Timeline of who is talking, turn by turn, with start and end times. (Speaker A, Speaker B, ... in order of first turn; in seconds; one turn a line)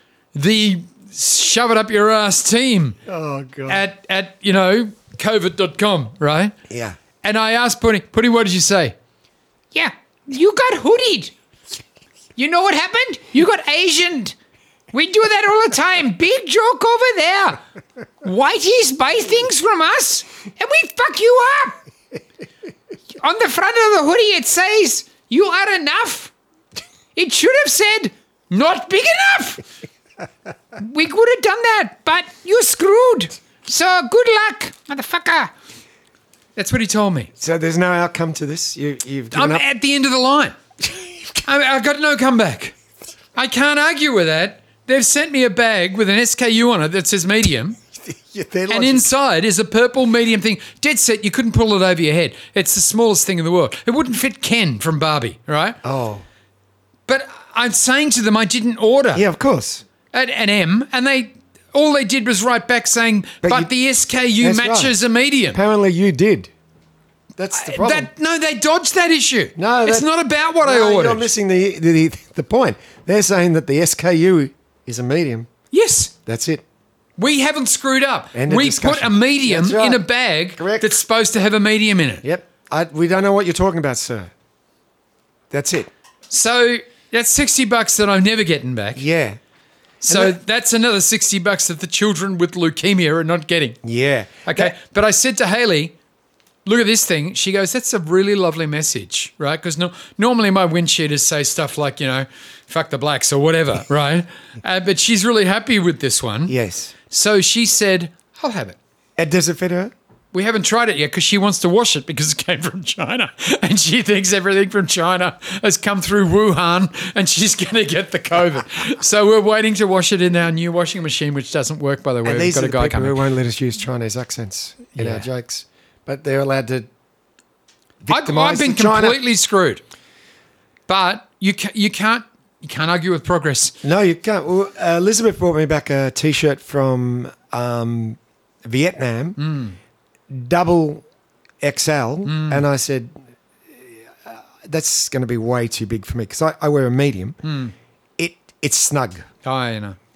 Speaker A: 0.3-3.0
Speaker B: 3.1-3.8
Speaker A: 3.7-6.5
Speaker B: 6.7-7.0
Speaker A: 7.2-8.9
Speaker C: 9.7-11.3
Speaker C: 12.4-14.3
Speaker C: 14.9-17.6
Speaker C: 18.2-21.8
Speaker C: 23.2-26.3
Speaker C: 27.1-28.1
Speaker A: 28.5-28.9
Speaker C: 28.7-29.6
Speaker C: 30.8-35.5
Speaker A: 36.6-37.3
Speaker B: 37.4-39.6
Speaker A: 39.3-40.6
Speaker A: 41.4-42.8
Speaker A: 43.4-47.8
Speaker B: 48.0-49.1
Speaker A: 48.7-55.8
Speaker B: 55.8-56.2
Speaker A: 57.1-59.2
Speaker B: 59.1-59.8
Speaker A: 60.1-65.6
Speaker B: 63.4-63.7
Speaker B: 64.4-64.9
Speaker B: 65.5-66.5
Speaker B: 67.4-68.1
Speaker A: 67.5-71.3
Speaker B: 69.6-70.1
Speaker B: 70.6-75.5
Speaker A: 75.7-76.1
Speaker B: 76.2-76.6
Speaker A: 77.2-82.2
Speaker B: 78.3-80.0
Speaker B: 80.6-81.0
Speaker B: 82.2-84.3
Speaker B: 85.5-85.9
Speaker A: 86.3-89.0
Speaker B: 89.0-89.4
Speaker A: 90.0-93.8
Speaker B: 90.1-90.4
Speaker B: 93.8-94.8
Speaker A: 94.5-96.0
Speaker A: 96.7-106.5
Speaker B: 106.5-106.9
Speaker A: 107.1-108.8
Speaker B: 109.2-109.9
Speaker A: 110.3-123.2
Speaker B: 122.2-126.9
Speaker A: 124.9-125.3
Speaker B: 128.0-129.2
Speaker A: 128.1-129.8
Speaker A: 130.9-133.8
Speaker B: 133.8-139.4
Speaker A: 139.4-139.8
Speaker B: 140.3-141.0
Speaker B: 141.6-143.2
Speaker A: 142.2-142.6
Speaker B: 143.7-147.4
Speaker A: 147.4-147.7
Speaker B: 148.2-149.3
Speaker A: 149.4-150.0